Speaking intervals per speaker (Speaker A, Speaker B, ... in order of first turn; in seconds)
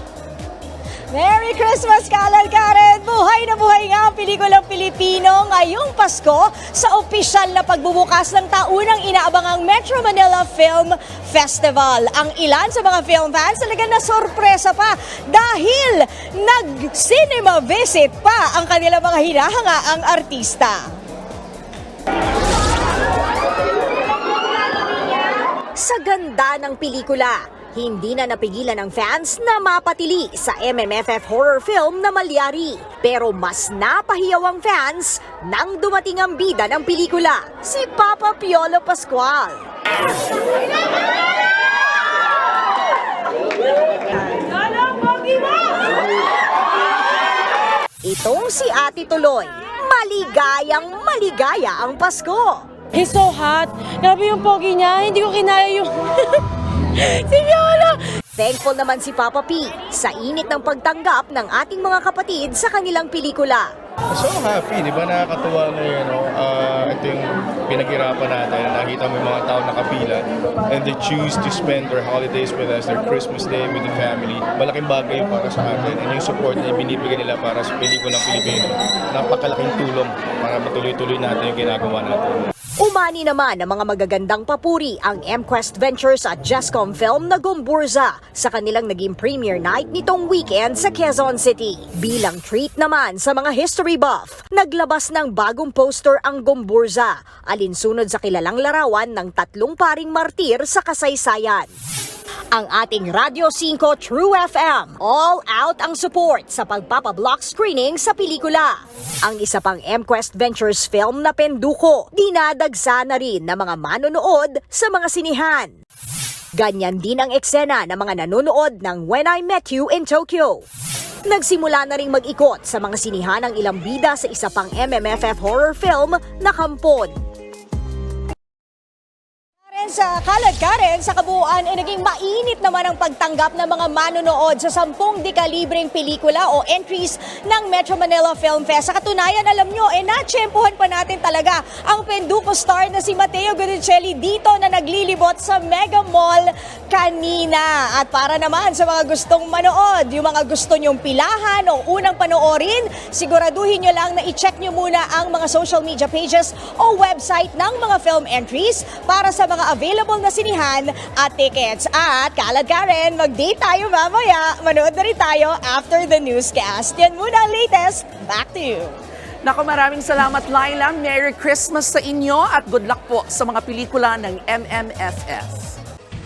Speaker A: 1.1-20.8, 25.8-39.6, 48.0-52.6, 58.4-63.7, 82.8-101.7, 102.5-115.7, 116.6-120.6, 121.3-127.1, 129.7-168.9
Speaker B: 44.4-45.8, 52.9-58.0
Speaker C: 64.1-82.5
Speaker D: 169.4-175.8